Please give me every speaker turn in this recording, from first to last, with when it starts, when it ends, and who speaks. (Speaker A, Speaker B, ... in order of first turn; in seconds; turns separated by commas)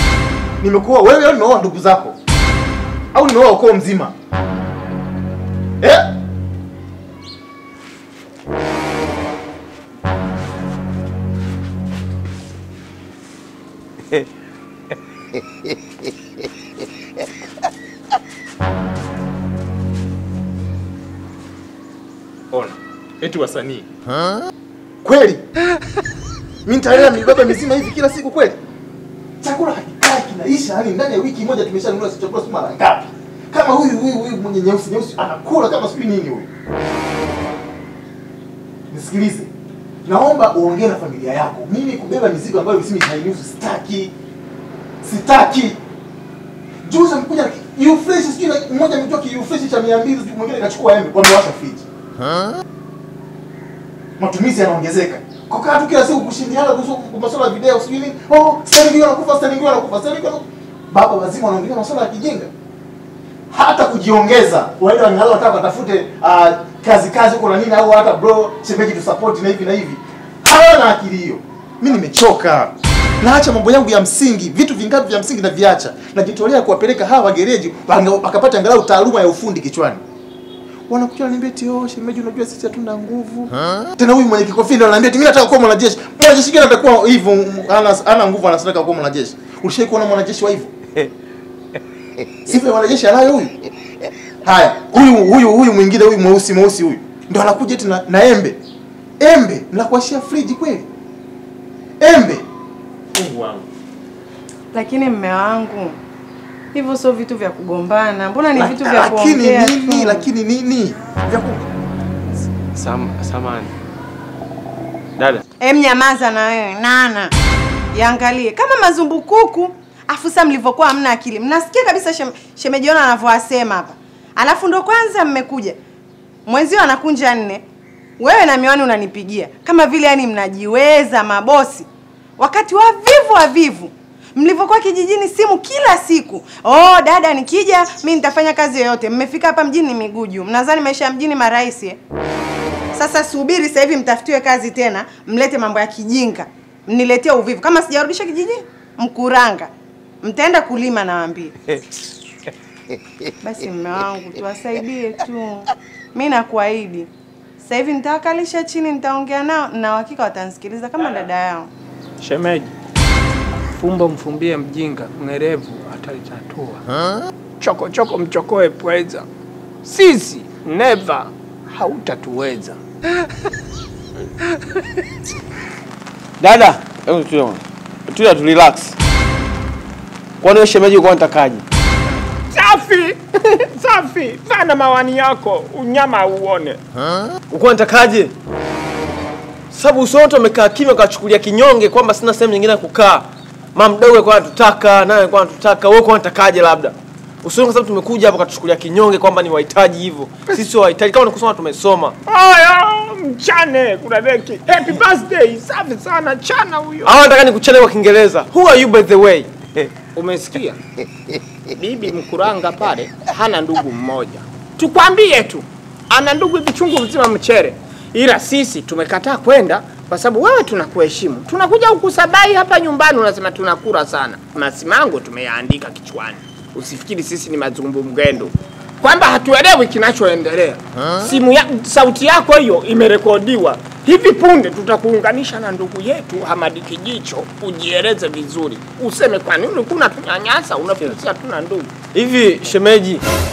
Speaker A: 0.6-2.1, Speaker A: 3.1-4.1, Speaker A: 22.5-23.9, Speaker A: 25.0-25.4, Speaker A: 26.6-28.6, Speaker A: 29.4-36.5, Speaker A: 38.9-39.5, Speaker A: 40.0-44.1, Speaker A: 45.0-45.8, Speaker A: 46.8-51.9, Speaker A: 54.2-62.5, Speaker A: 63.5-80.0, Speaker A: 80.9-90.7, Speaker A: 92.4-93.5, Speaker A: 94.4-98.6, Speaker A: 99.2-100.8, Speaker A: 102.0-102.4, Speaker A: 103.1-103.6, Speaker B: 104.7-106.0, Speaker B: 106.7-110.3, Speaker A: 108.5-111.7, Speaker C: 112.7-113.7, Speaker C: 115.2-115.4, Speaker B: 115.6-117.3, Speaker B: 117.9-125.8, Speaker B: 126.5-127.6, Speaker B: 128.2-142.0, Speaker B: 142.9-149.7, Speaker B: 150.2-151.7, Speaker B: 153.4-161.7, Speaker D: 162.2-162.7, Speaker D: 163.7-166.8, Speaker D: 167.6-169.3, Speaker D: 169.8-172.8, Speaker C: 176.4-179.0, Speaker C: 180.4-181.6, Speaker D: 182.5-186.8, Speaker C: 187.5-188.3, Speaker C: 189.7-202.2, Speaker D: 202.3-207.2, Speaker C: 207.0-209.9, Speaker D: 210.1-210.8, Speaker D: 211.7-241.9, Speaker C: 242.1-243.2